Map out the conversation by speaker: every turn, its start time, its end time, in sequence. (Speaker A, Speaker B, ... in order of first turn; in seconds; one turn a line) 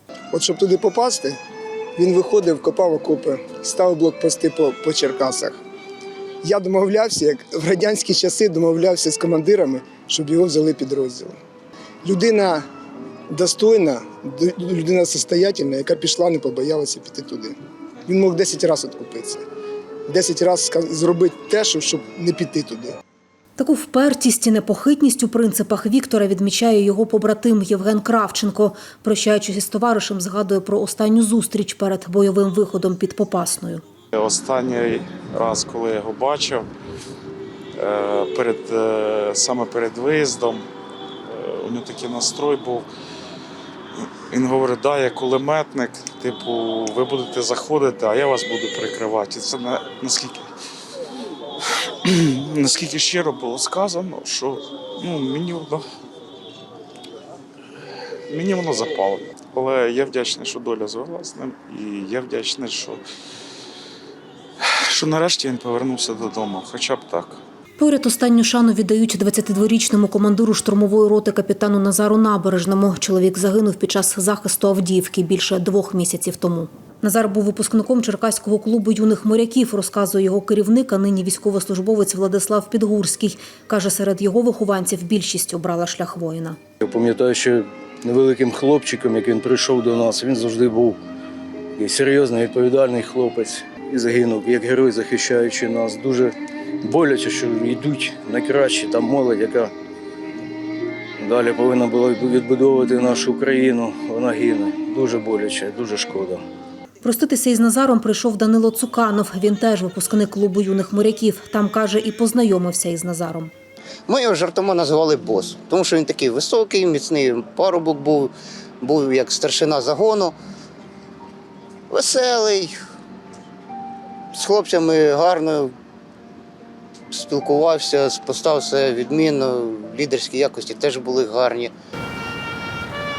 Speaker A: 0.3-1.4
Speaker A: 1.9-5.6
Speaker A: 6.4-11.4
Speaker A: 12.0-12.6
Speaker A: 13.3-17.5
Speaker A: 18.1-19.4
Speaker A: 20.1-22.9
Speaker B: 23.6-33.8
Speaker C: 34.1-36.7
Speaker C: 37.8-40.7
Speaker C: 41.3-42.9
Speaker C: 44.3-50.5
Speaker C: 51.7-55.8
Speaker C: 58.3-63.0
Speaker C: 64.6-67.4
Speaker B: 67.8-86.6
Speaker D: 86.8-91.0
Speaker D: 91.8-99.7
Speaker D: 101.2-106.4
Speaker B: 107.0-113.5
Speaker E: 114.1-120.3
Speaker E: 121.9-122.8
Speaker E: 124.3-125.7
Speaker E: 127.1-131.7